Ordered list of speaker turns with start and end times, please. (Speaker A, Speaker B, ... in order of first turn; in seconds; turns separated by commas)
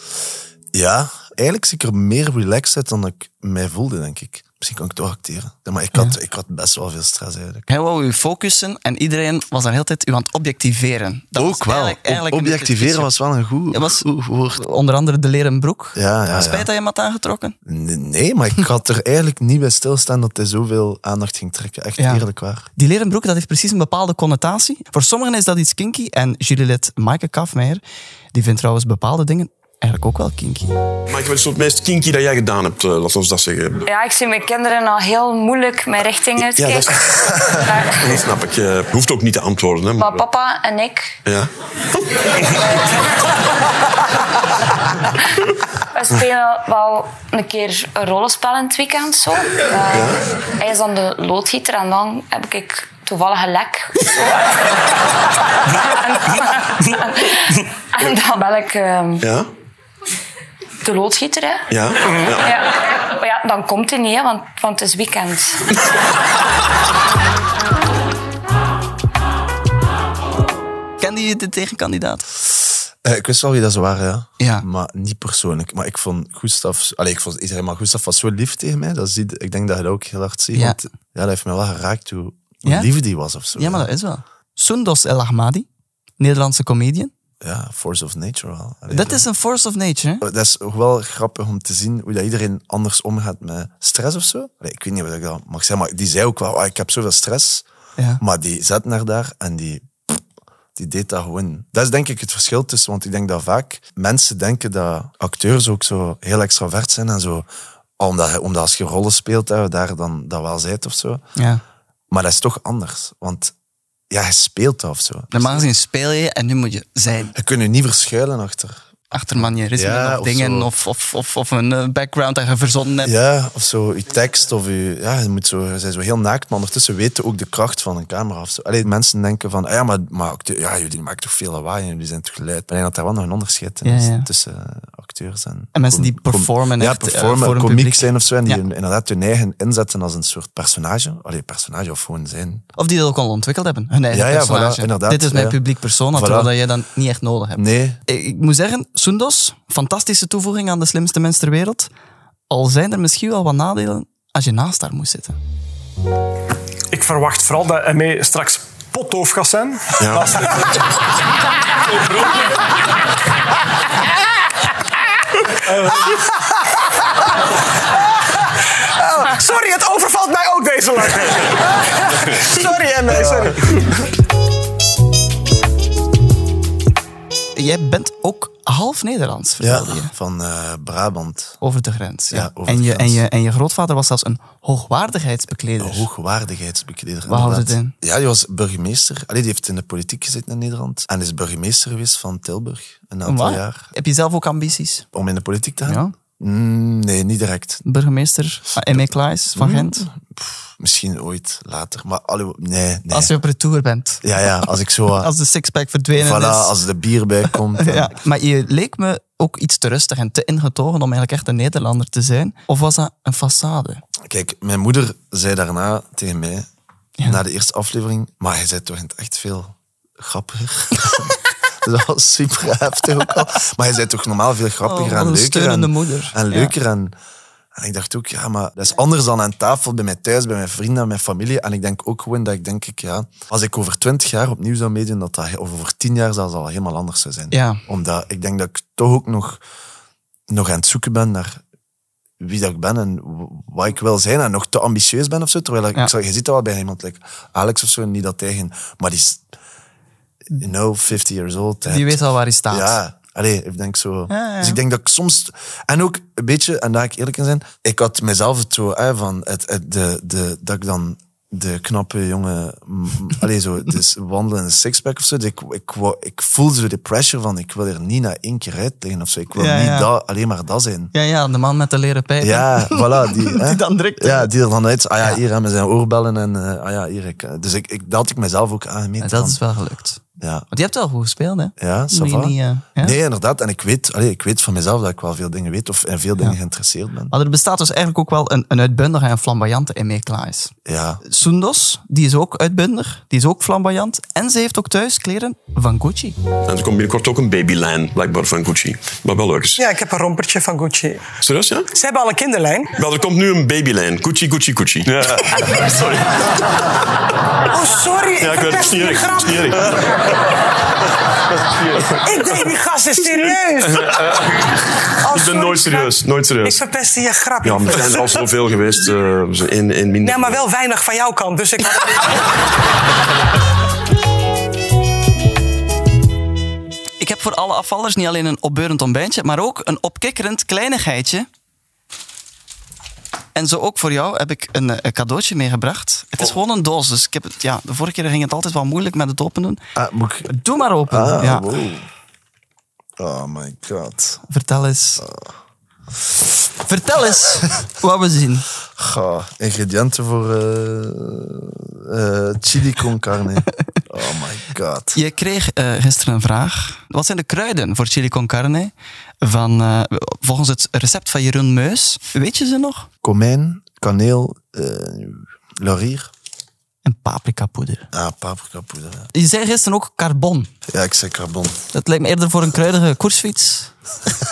Speaker A: 0.7-7.7, Speaker B: 7.7-13.1, Speaker A: 11.3-14.6, Speaker B: 13.7-17.6, Speaker A: 15.9-16.7, Speaker A: 17.7-22.7, Speaker B: 22.0-30.8, Speaker C: 31.1-33.8, Speaker D: 33.9-38.2, Speaker C: 36.4-40.2, Speaker D: 40.0-41.1, Speaker D: 42.6-42.9, Speaker D: 45.9-54.7, Speaker C: 49.9-50.2, Speaker D: 55.7-59.3, Speaker C: 59.2-59.5, Speaker D: 60.8-61.7, Speaker C: 61.7-62.5, Speaker D: 62.3-65.6, Speaker B: 71.0-72.3, Speaker A: 73.0-83.9, Speaker B: 74.4-74.7, Speaker B: 80.5-80.8, Speaker B: 82.7-82.9, Speaker B: 83.5-85.7, Speaker B: 86.2-87.1, Speaker A: 87.4-89.3, Speaker B: 88.9-90.2, Speaker A: 90.2-97.7, Speaker B: 98.0-98.2, Speaker A: 98.2-100.2, Speaker A: 100.8-107.5, Speaker A: 108.0-111.2, Speaker B: 111.3-111.6, Speaker A: 112.1-113.5, Speaker A: 114.1-115.7, Speaker B: 115.3-117.3, Speaker A: 117.3-120.7, Speaker B: 119.1-123.1, Speaker A: 123.0-142.6, Speaker B: 133.8-134.3, Speaker B: 135.7-138.6, Speaker B: 142.8-151.9, Speaker A: 144.1-145.6, Speaker A: 146.1-146.5, Speaker A: 147.6-148.0, Speaker B: 152.5-155.4, Speaker E: 156.9-160.5, Speaker C: 160.0-160.3, Speaker F: 169.0-174.0, Speaker B: 177.5-180.1, Speaker A: 179.6-181.6, Speaker B: 181.6-186.1, Speaker A: 182.3-183.2, Speaker A: 185.8-193.9, Speaker B: 187.3-187.9, Speaker B: 193.3-195.1, Speaker A: 195.1-197.8, Speaker B: 195.8-196.1, Speaker B: 197.8-200.1, Speaker A: 198.7-203.3, Speaker B: 203.1-204.3, Speaker A: 204.2-205.3, Speaker B: 205.1-206.8, Speaker A: 206.2-208.2, Speaker B: 207.8-214.0, Speaker A: 214.3-216.7, Speaker A: 217.2-227.1, Speaker B: 224.8-226.7, Speaker A: 227.7-239.6, Speaker B: 237.5-237.8, Speaker A: 240.5-241.6, Speaker A: 242.4-249.4, Speaker A: 250.5-271.1, Speaker B: 251.9-253.0, Speaker B: 254.3-254.8, Speaker B: 269.5-270.1, Speaker B: 271.1-274.5, Speaker A: 272.4-279.6, Speaker B: 279.2-283.2, Speaker A: 280.4-280.7, Speaker A: 281.8-287.3, Speaker B: 287.3-290.7, Speaker A: 290.9-291.2, Speaker B: 291.2-296.4, Speaker C: 296.6-299.8, Speaker F: 299.8-301.2, Speaker C: 301.4-301.9, Speaker F: 301.9-303.0, Speaker C: 303.0-306.6, Speaker F: 307.7-309.7, Speaker C: 308.4-310.5, Speaker C: 311.7-312.7, Speaker F: 312.2-313.9, Speaker C: 313.4-314.4, Speaker F: 315.2-318.1, Speaker C: 315.3-316.9, Speaker C: 317.6-320.7, Speaker F: 320.2-322.2, Speaker B: 327.2-331.5, Speaker B: 333.5-339.8, Speaker A: 339.9-340.5, Speaker B: 340.5-341.7, Speaker A: 341.1-342.1, Speaker A: 343.2-344.4, Speaker B: 344.5-345.2, Speaker A: 345.2-345.5, Speaker B: 346.8-348.7, Speaker A: 349.0-355.2, Speaker B: 355.1-363.1, Speaker A: 363.2-366.3, Speaker B: 367.0-368.1, Speaker A: 368.1-369.3, Speaker B: 369.3-370.7, Speaker A: 370.9-371.8, Speaker B: 371.9-373.9